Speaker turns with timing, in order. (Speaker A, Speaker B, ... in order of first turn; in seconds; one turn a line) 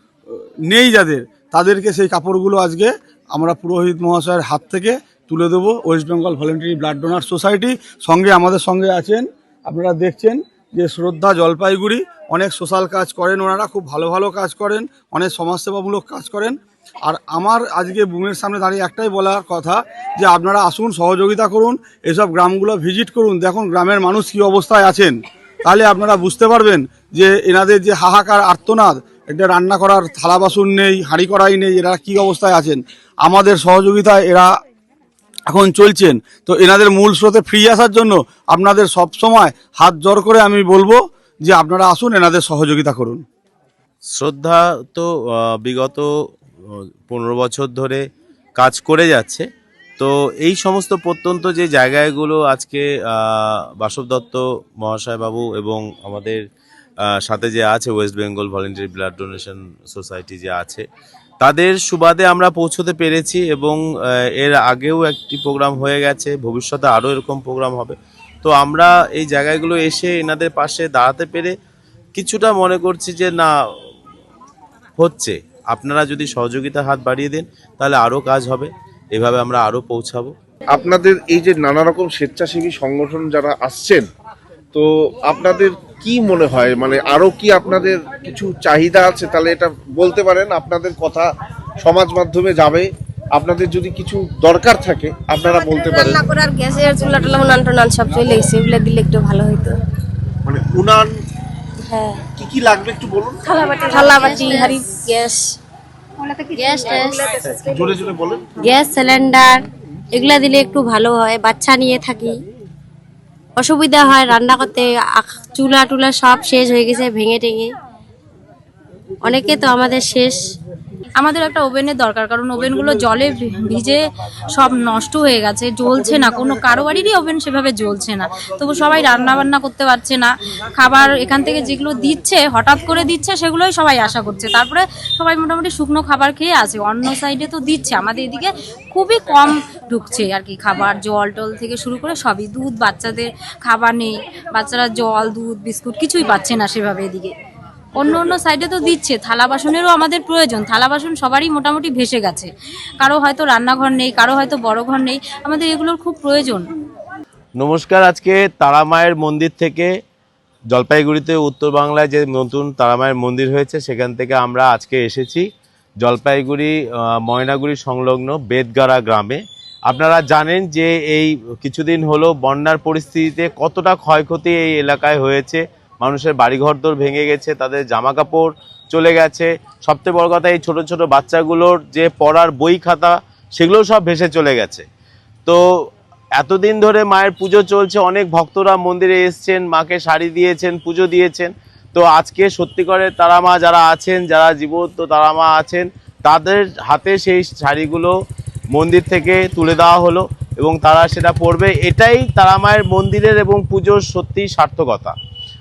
Speaker A: 0.3-25.1
Speaker A: 25.6-34.5
Speaker A: 35.5-43.2
Speaker B: 44.1-46.1
Speaker B: 47.0-48.0
Speaker B: 48.6-49.4
Speaker B: 50.0-56.4
Speaker B: 57.2-60.8
Speaker B: 61.4-63.8
Speaker B: 64.4-71.5
Speaker B: 72.2-73.5
Speaker B: 75.0-80.3
Speaker C: 80.7-84.0
Speaker C: 84.7-91.3
Speaker C: 91.8-96.3
Speaker D: 95.9-99.7
Speaker C: 100.5-101.2
Speaker D: 101.9-102.2
Speaker C: 102.3-103.5
Speaker D: 103.7-105.4
Speaker D: 106.5-107.2
Speaker C: 107.6-108.5
Speaker D: 108.6-112.4
Speaker D: 113.6-117.7
Speaker D: 119.2-120.5
Speaker E: 121.2-124.0
Speaker E: 124.5-147.3
Speaker E: 147.9-152.5
Speaker E: 153.0-156.6
Speaker B: 157.6-159.9
Speaker B: 160.7-165.4
Speaker B: 166.0-184.8
Speaker B: 186.4-198.1
Speaker B: 198.7-205.1